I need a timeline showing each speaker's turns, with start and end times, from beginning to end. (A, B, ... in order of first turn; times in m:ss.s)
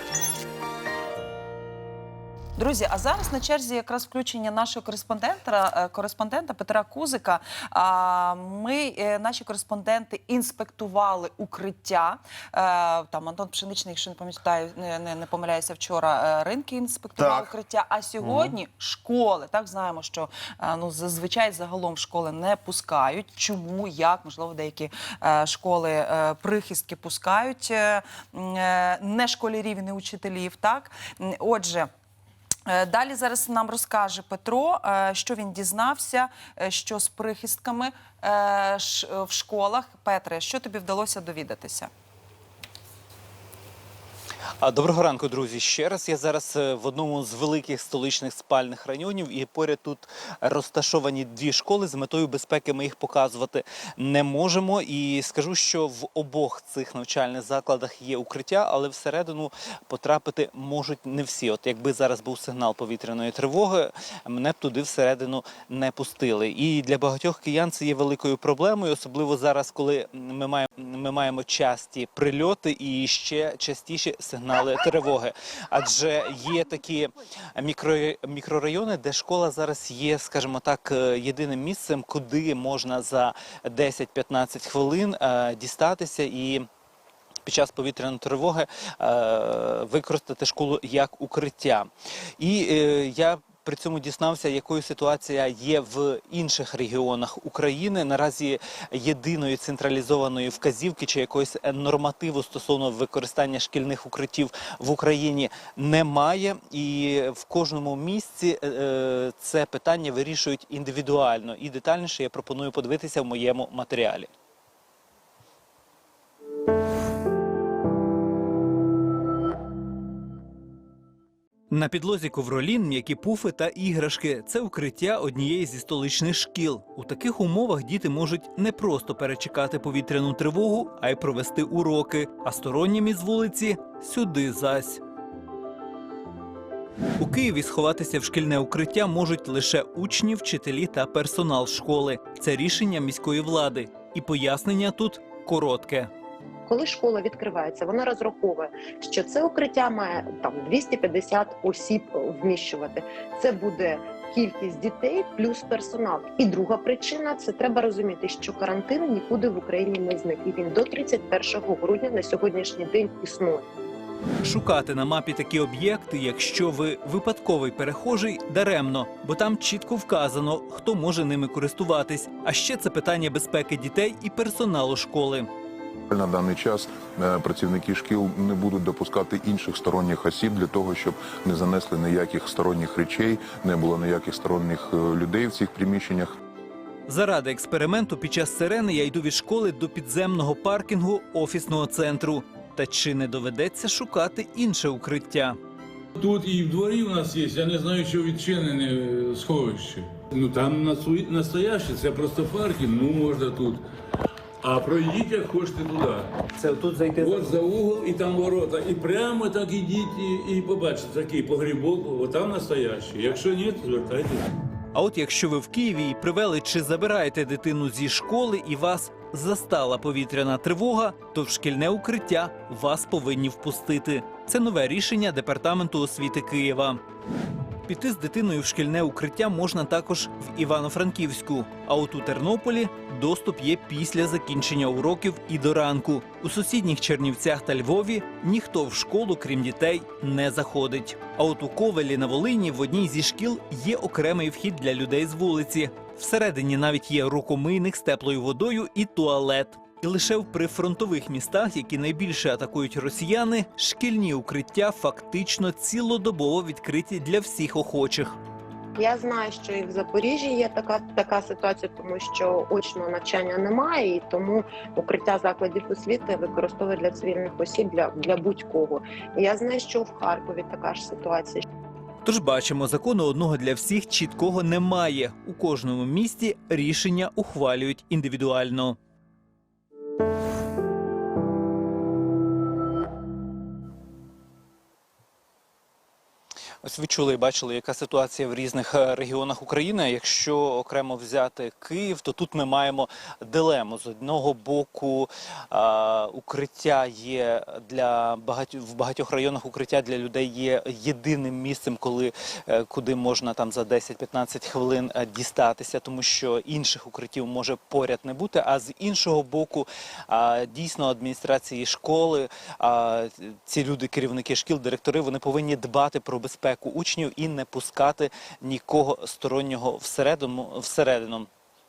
0:02.6-0:31.9 A
0:32.6-0:41.9 A
0:44.6-1:26.6 B
1:27.4-1:54.3 B
2:01.7-2:15.0 B
2:17.2-2:26.1 B
2:26.7-2:43.7 C
2:44.4-2:55.5 B
2:56.1-3:06.4 D
3:07.1-3:15.6 B
3:16.2-3:23.8 E
3:24.6-3:26.3 E
3:26.5-3:27.5 B
3:27.1-3:34.5 E
3:34.9-3:47.0 B
3:47.9-4:18.4 B
4:19.0-4:31.6 C
4:32.2-4:39.0 B
4:46.8-5:21.5 B